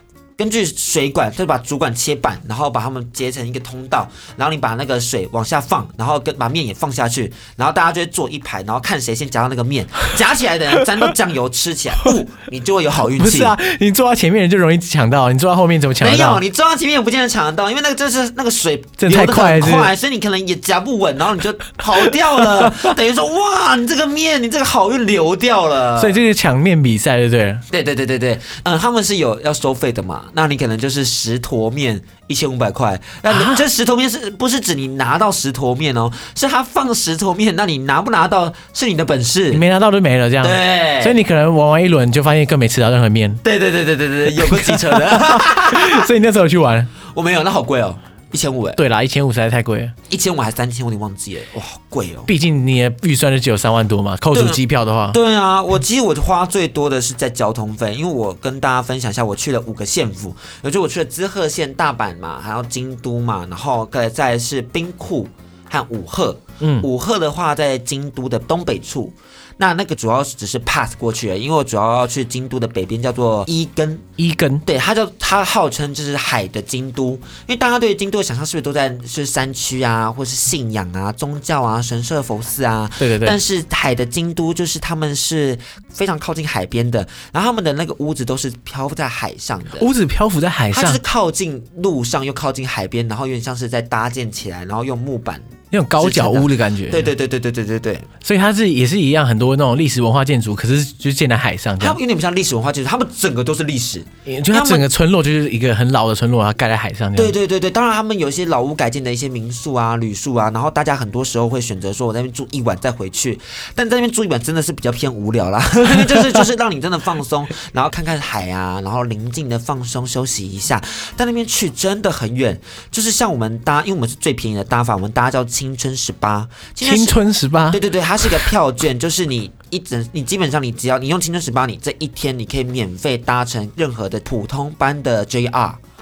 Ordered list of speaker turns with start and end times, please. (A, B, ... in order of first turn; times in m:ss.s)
0:00.4-0:13.6 A
0:13.2-0:16.4 B
0:16.0-0:26.2 A
0:19.0-0:19.9 B
0:22.4-0:22.9 B
0:26.0-0:27.6 B
0:27.7-0:39.6 A
0:33.3-0:33.6 B
0:39.5-0:43.4 B
0:40.4-0:41.2 A
0:43.4-0:46.1 A
0:44.3-0:46.9 B
0:47.1-0:48.8 A
0:48.8-0:49.9 B
0:50.1-0:52.3 A
0:52.3-0:55.2 B
0:54.3-0:54.6 A
0:55.1-1:14.0 A
1:06.6-1:06.9 B
1:14.2-1:14.6 B
1:14.7-1:29.9 A
1:23.0-1:23.4 B
1:29.8-1:31.0 B
1:30.7-1:38.1 A
1:35.7-1:37.1 B
1:38.2-1:42.0 B
1:41.8-1:44.8 A
1:44.3-1:47.4 B
1:47.2-2:07.2 A
1:56.1-1:56.4 B
2:06.8-2:08.5 B
2:07.7-2:15.8 A